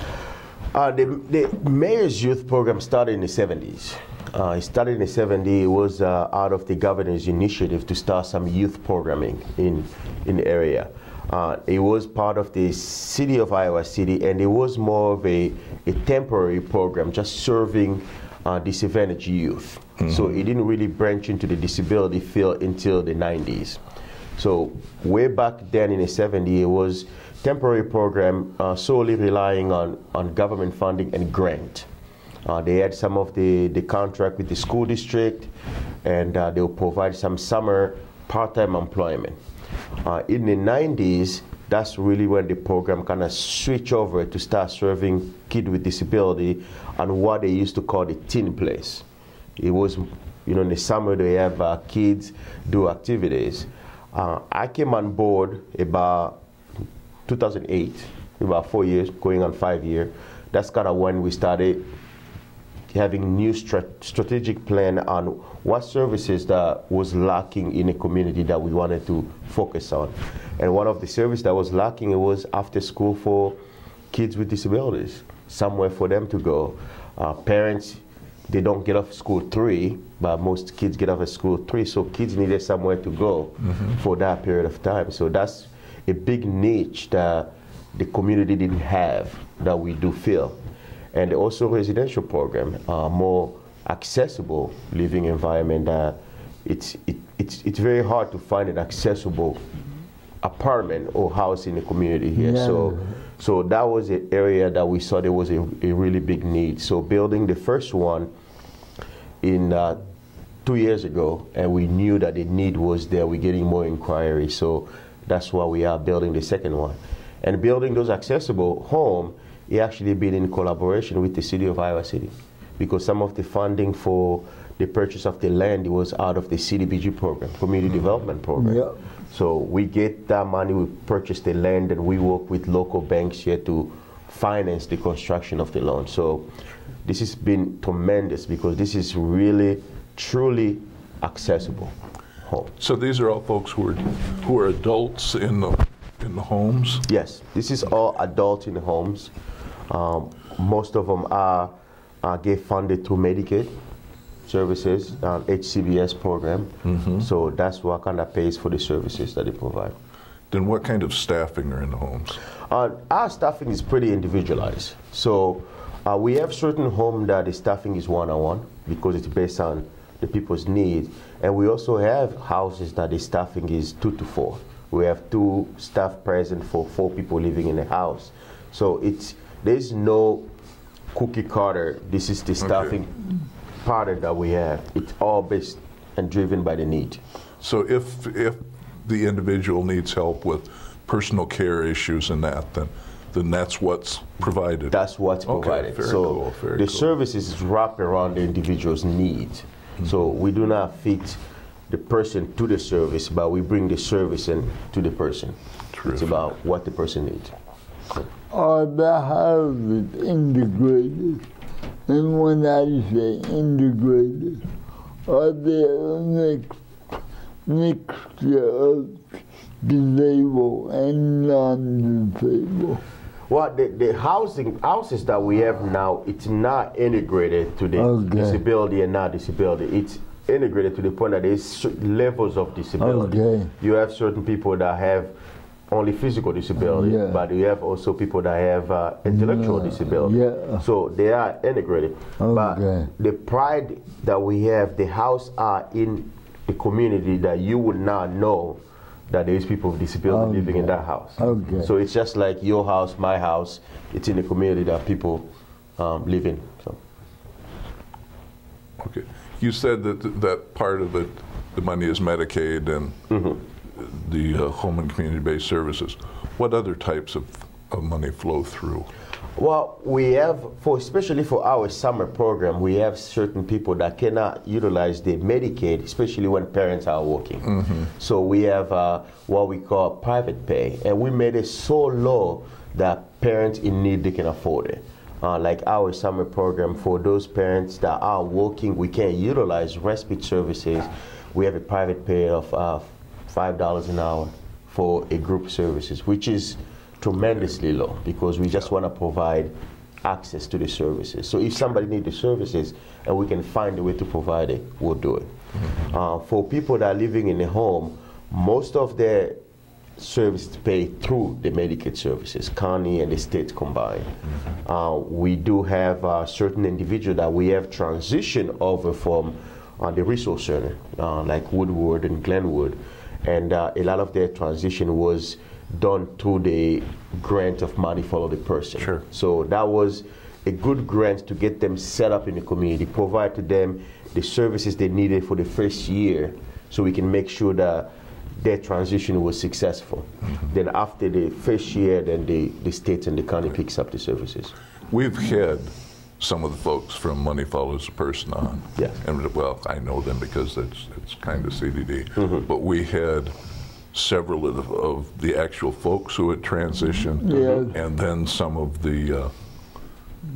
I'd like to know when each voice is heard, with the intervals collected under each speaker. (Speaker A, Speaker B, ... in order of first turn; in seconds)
Speaker A: 0.7-23.8, 24.4-31.9, 32.4-35.5, 36.0-39.4, 40.0-49.0, 49.6-56.4, 57.3-61.9, 62.9-73.6, 74.1-90.6, 91.1-99.6, 100.4-108.3, 109.4-110.0, 110.6-136.5, 137.0-142.7, 147.1-149.3, 149.9-153.7, 154.4-159.9, 162.7-180.5, 181.1-183.1, 183.8-187.2, 194.9-205.6, 206.1-207.5, 223.5-235.3, 235.9-257.0, 263.3-263.6, 269.6-299.7, 300.2-309.6, 310.2-344.7, 352.4-352.6
Speaker B: 102.3-103.2, 128.6-129.0, 208.5-211.4, 212.1-214.6, 215.2-216.8, 217.7-223.0, 228.0-228.6, 233.0-233.7, 236.8-237.4, 239.3-240.8, 242.4-243.1, 250.3-251.9, 357.4-357.9
Speaker C: 142.8-147.1, 156.8-157.2, 160.5-162.4, 182.6-182.9, 187.6-194.9, 195.5-197.1, 205.9-206.3, 259.0-263.2, 263.9-269.1, 277.7-278.0, 345.1-353.5, 354.1-359.5